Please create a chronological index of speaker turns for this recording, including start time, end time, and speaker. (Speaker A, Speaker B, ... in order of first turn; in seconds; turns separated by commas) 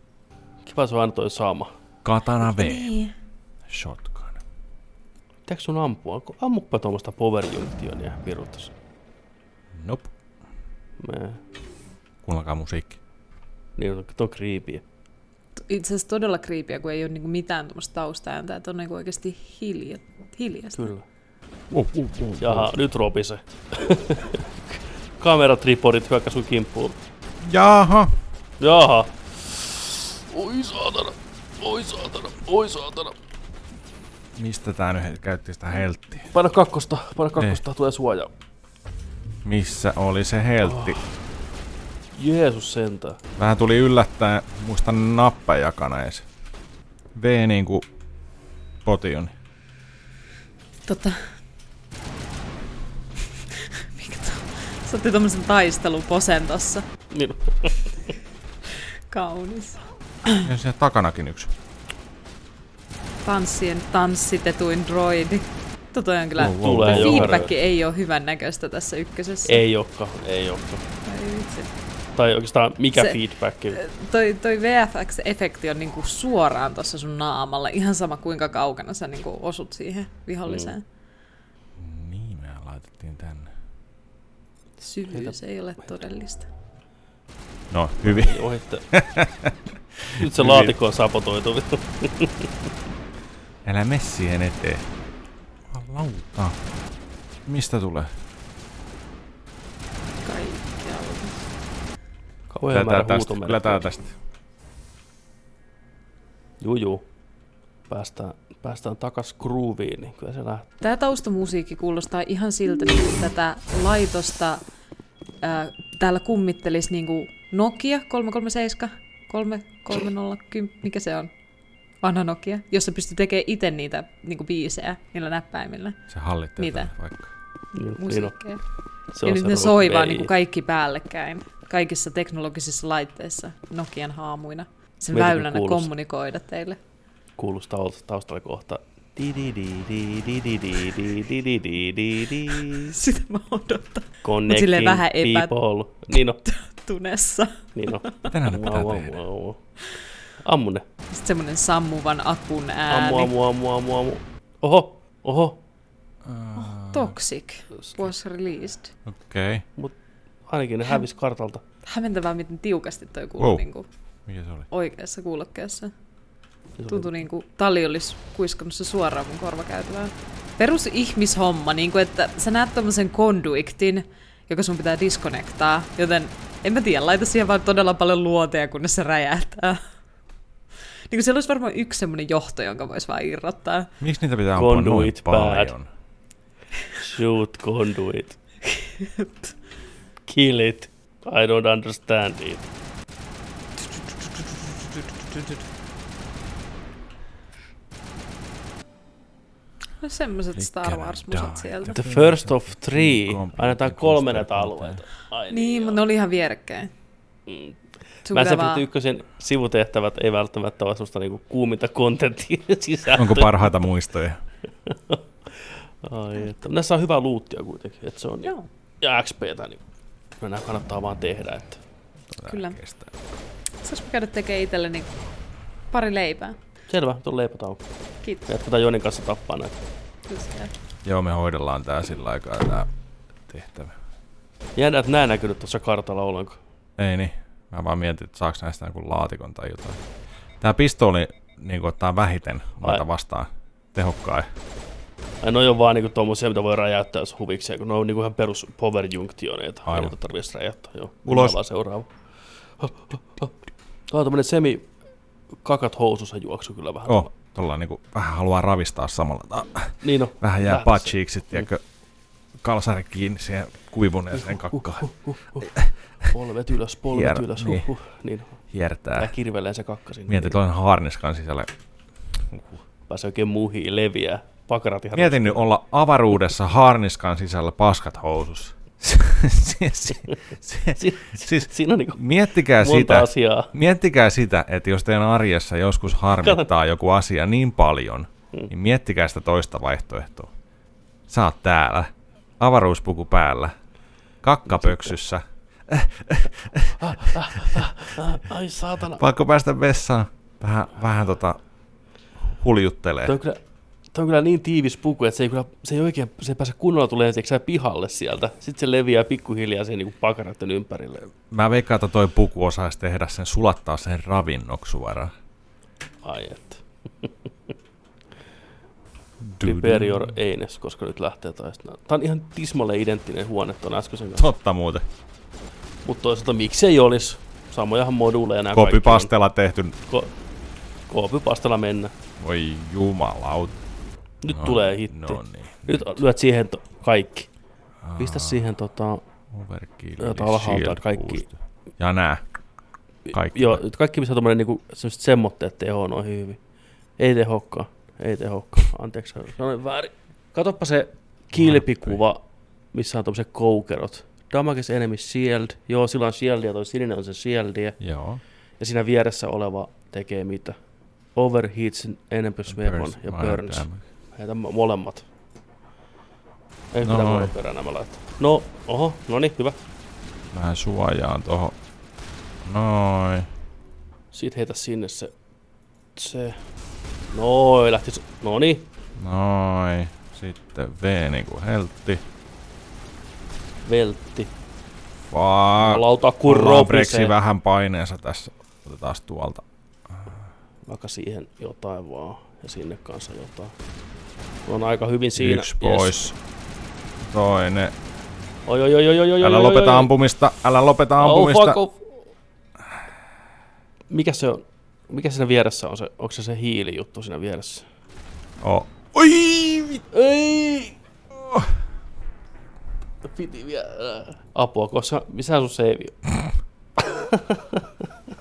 Speaker A: 0.6-1.7, Speaker B: 2.0-2.9, Speaker C: 2.5-3.1, Speaker B: 3.7-4.4, Speaker A: 5.5-8.7, Speaker B: 9.7-10.1, Speaker A: 11.0-11.4, Speaker B: 12.2-13.0, Speaker A: 13.8-14.8, Speaker C: 15.6-20.9, Speaker A: 20.7-21.0, Speaker B: 21.7-22.7, Speaker A: 22.4-27.0, Speaker B: 27.4-28.1, Speaker A: 28.6-33.1, Speaker B: 34.3-36.3, Speaker A: 36.3-38.3, Speaker B: 39.4-41.0, Speaker A: 40.6-41.1, Speaker A: 42.1-43.2, Speaker B: 43.4-46.2, Speaker B: 47.1-47.8, Speaker B: 48.8-49.3, Speaker C: 50.9-51.2, Speaker C: 53.5-56.8, Speaker A: 57.1-58.1, Speaker C: 59.1-60.5, Speaker B: 60.4-61.5, Speaker C: 63.2-69.6, Speaker B: 66.4-67.5, Speaker A: 66.6-67.5, Speaker A: 69.5-70.8, Speaker C: 71.0-71.7, Speaker A: 72.2-73.8, Speaker C: 73.7-80.8, Speaker A: 80.5-80.7, Speaker B: 81.8-83.5, Speaker C: 84.8-86.5, Speaker B: 87.7-90.8, Speaker A: 88.0-88.8, Speaker A: 90.2-92.5, Speaker B: 93.6-94.8, Speaker B: 95.7-96.6, Speaker B: 97.5-98.1, Speaker C: 100.2-101.4, Speaker A: 102.5-103.8, Speaker B: 102.7-104.1, Speaker A: 106.6-107.0, Speaker A: 107.9-110.7, Speaker C: 110.8-114.6, Speaker C: 115.4-121.3, Speaker C: 122.0-126.0, Speaker B: 126.1-127.3, Speaker C: 126.6-126.9, Speaker A: 127.7-128.3, Speaker C: 128.0-128.6, Speaker A: 129.1-130.3, Speaker C: 129.2-136.8, Speaker A: 135.1-135.9, Speaker A: 137.4-142.9, Speaker C: 142.5-145.5, Speaker A: 144.2-146.4, Speaker C: 146.4-148.3, Speaker A: 147.7-149.6, Speaker B: 148.3-149.2, Speaker A: 150.4-150.8, Speaker C: 151.1-153.3, Speaker A: 152.9-155.6, Speaker B: 156.2-157.2, Speaker C: 156.6-158.9, Speaker B: 159.1-159.6, Speaker A: 160.5-161.6, Speaker C: 161.8-163.8, Speaker B: 163.4-163.6, Speaker B: 164.3-164.7, Speaker C: 164.7-165.9, Speaker A: 166.8-167.1, Speaker C: 166.9-179.8, Speaker C: 181.1-183.9, Speaker B: 184.0-185.9, Speaker A: 184.5-185.7, Speaker A: 187.0-188.4, Speaker C: 188.7-189.5, Speaker A: 190.3-192.7, Speaker C: 200.0-202.0, Speaker B: 200.6-205.0, Speaker A: 201.9-206.0, Speaker C: 205.5-206.9, Speaker A: 207.5-213.5, Speaker C: 208.3-208.9, Speaker B: 213.1-214.4, Speaker A: 214.9-215.2, Speaker A: 216.0-219.8, Speaker A: 220.4-221.8, Speaker B: 222.3-223.1, Speaker C: 222.4-222.8, Speaker C: 223.8-225.2, Speaker C: 225.9-226.6, Speaker A: 226.9-227.8, Speaker A: 228.5-229.8, Speaker C: 230.3-230.7, Speaker B: 231.0-232.9, Speaker B: 233.5-233.9, Speaker A: 234.8-236.6, Speaker B: 237.0-240.0, Speaker B: 240.6-244.5, Speaker A: 245.4-252.1, Speaker B: 249.9-250.1, Speaker B: 251.2-251.6, Speaker A: 252.8-253.6, Speaker A: 254.1-254.9, Speaker A: 255.6-257.3, Speaker B: 257.1-261.8, Speaker A: 260.0-261.7, Speaker B: 262.6-265.1, Speaker A: 264.3-265.7, Speaker B: 265.6-265.9, Speaker A: 266.2-268.6, Speaker B: 267.1-267.9, Speaker B: 268.7-269.3, Speaker A: 269.2-270.6, Speaker B: 270.3-271.7, Speaker B: 272.5-272.8, Speaker A: 273.1-275.6, Speaker B: 275.1-290.5, Speaker A: 280.9-282.2, Speaker A: 282.7-283.7, Speaker A: 286.4-286.7, Speaker B: 291.3-293.7, Speaker B: 294.4-297.9, Speaker A: 294.7-295.1, Speaker A: 297.0-299.2, Speaker B: 299.1-301.6, Speaker B: 302.5-303.4, Speaker A: 303.2-303.6, Speaker A: 304.1-311.3, Speaker B: 311.5-315.3, Speaker A: 316.2-317.3, Speaker B: 319.4-320.3, Speaker A: 319.6-324.5, Speaker B: 324.4-325.0, Speaker A: 326.0-329.3, Speaker B: 328.7-329.9, Speaker A: 330.1-330.3, Speaker A: 331.1-332.1, Speaker B: 332.4-333.8, Speaker A: 334.4-337.5, Speaker B: 334.5-336.2, Speaker B: 338.0-338.6, Speaker A: 338.2-339.2, Speaker B: 339.5-342.4, Speaker A: 340.2-341.4, Speaker A: 343.2-346.6, Speaker B: 343.3-343.8, Speaker A: 347.2-352.4, Speaker B: 351.5-352.2, Speaker A: 352.9-358.0, Speaker B: 358.0-358.4, Speaker A: 358.8-360.8, Speaker A: 361.3-365.2, Speaker B: 362.7-364.0, Speaker A: 366.9-369.8, Speaker B: 367.0-367.5, Speaker B: 370.5-371.8, Speaker B: 372.6-373.5, Speaker A: 374.3-375.3, Speaker A: 376.1-376.6, Speaker A: 377.3-378.9, Speaker B: 379.2-382.2, Speaker A: 383.8-384.5, Speaker B: 385.3-390.3, Speaker A: 385.8-387.3, Speaker A: 390.9-393.7, Speaker A: 394.6-396.2, Speaker B: 395.4-396.4, Speaker B: 397.2-397.9, Speaker A: 398.7-400.1, Speaker B: 399.4-401.8, Speaker A: 401.2-402.2, Speaker A: 404.1-407.9, Speaker B: 408.6-410.0, Speaker A: 410.1-410.9, Speaker B: 411.3-411.7, Speaker A: 413.2-416.2, Speaker A: 417.0-418.0